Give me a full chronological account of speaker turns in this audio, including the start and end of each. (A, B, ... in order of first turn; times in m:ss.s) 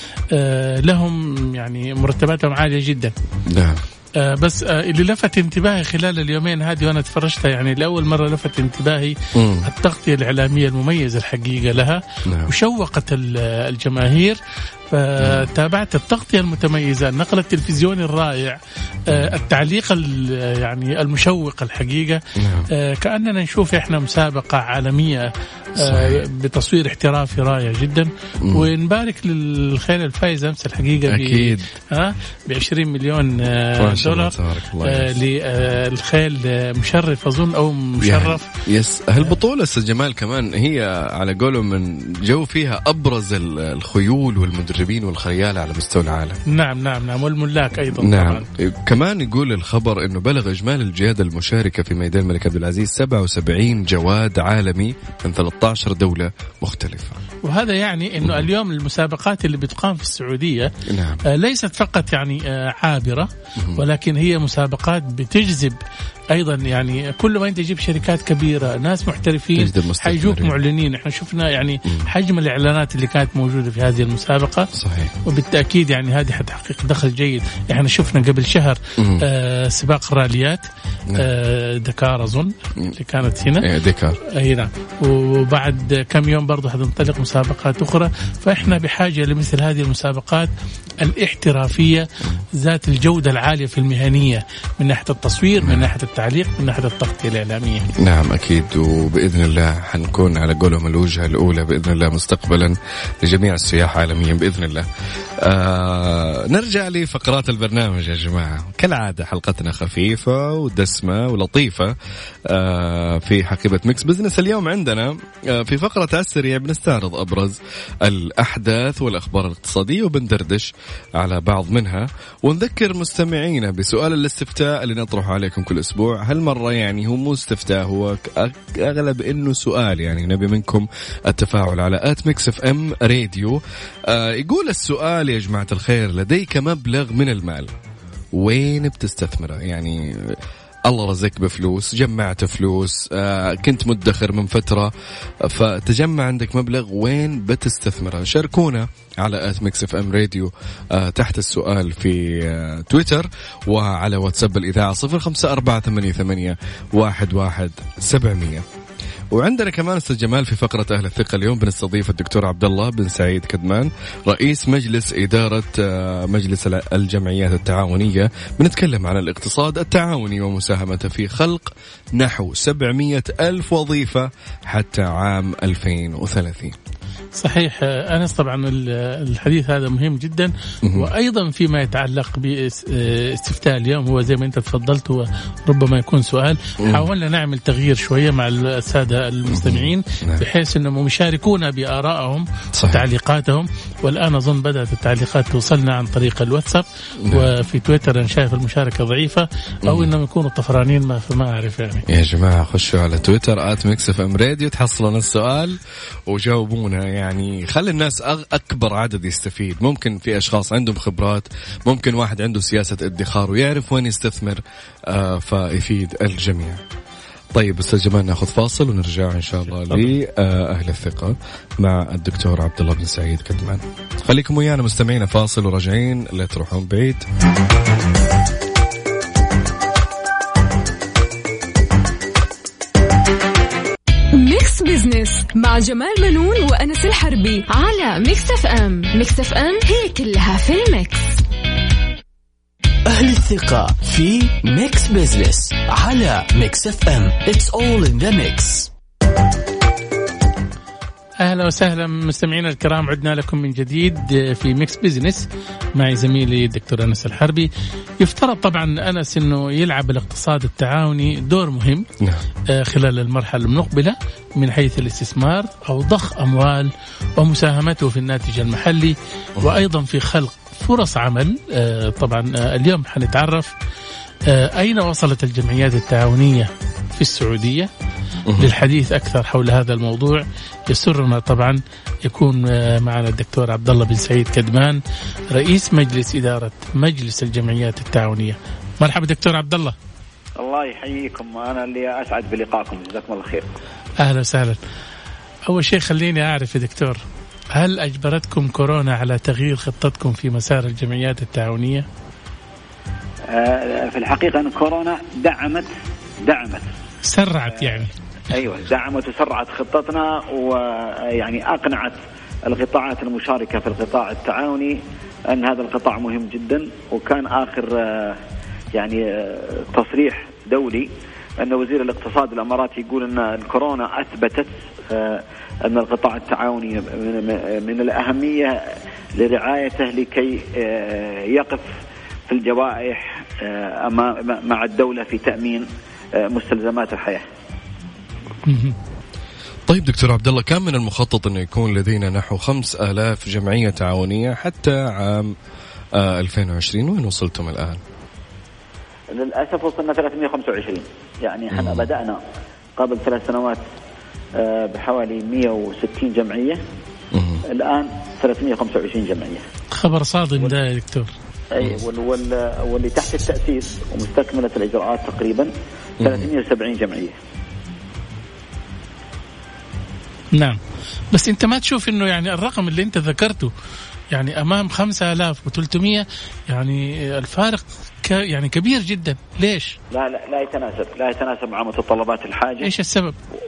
0:00.3-0:03.1 A
0:03.5-0:03.8 B
0:04.2-0:14.4 A
0:09.4-0:09.7 B
0:12.3-0:12.5 B
0:14.9-0:38.5 A
0:15.2-0:15.5 B
0:22.4-0:22.7 B
0:25.8-0:26.2 B
0:31.1-0:31.7 B
0:33.8-0:35.2 B
0:38.0-0:46.4 B
0:46.5-0:48.5 A
0:48.0-0:57.2 B
0:57.4-1:00.7 A
0:58.2-0:58.5 B
1:00.9-1:01.2 B
1:01.3-1:05.8 A
1:03.6-1:03.8 B
1:06.3-1:14.7 A
1:09.6-1:10.6 B
1:14.7-1:15.1 B
1:15.3-1:20.6 A
1:19.0-1:19.3 B
1:21.2-1:23.7 A
1:23.6-1:24.2 B
1:24.3-1:30.5 A
1:31.0-1:37.9 A
1:35.6-1:35.9 B
1:38.0-1:44.9 B
1:45.4-1:51.9 B
1:52.5-2:17.7 B
2:18.4-2:38.6 B
2:39.3-2:56.8 B
2:57.4-3:22.0 A
3:00.8-3:01.1 B
3:09.5-3:10.5 B
3:12.8-3:13.0 B
3:19.9-3:20.1 B
3:22.1-3:36.8 B
3:37.5-3:47.2 B
3:39.9-3:40.1 A
3:54.3-4:01.4 C
4:03.1-4:08.9 D
4:11.4-4:17.7 A
4:18.2-4:22.1 A
4:22.7-4:33.7 A
4:34.5-4:37.9 A
4:38.5-4:38.7 B
4:38.6-4:50.0 A
4:50.6-4:53.7 E
4:54.2-4:54.8 A
4:55.7-4:57.2 A
4:57.8-5:02.1 A
5:03.5-5:05.9 E
5:06.4-5:06.8 E
5:07.2-5:08.1 A
5:07.8-5:15.0 E
5:15.5-5:18.4 E
5:18.9-5:28.8 E
5:29.4-5:31.9 E
5:32.5-5:35.8 E
5:36.4-5:37.4 E
5:38.7-5:39.0 A
5:39.9-5:45.6 B
5:46.2-5:48.0 B
5:49.3-5:52.4 E
5:51.7-5:52.1 B
5:53.0-5:53.8 E
5:54.6-5:56.8 E
5:57.3-5:57.6 B
5:57.7-5:59.6 E
5:59.9-6:01.3 A
6:01.7-6:07.4 E
6:06.2-6:06.5 B
6:10.6-6:10.8 A
6:11.3-6:13.7 A
6:14.3-6:20.0 A
6:20.1-6:22.9 E
6:22.8-6:23.4 A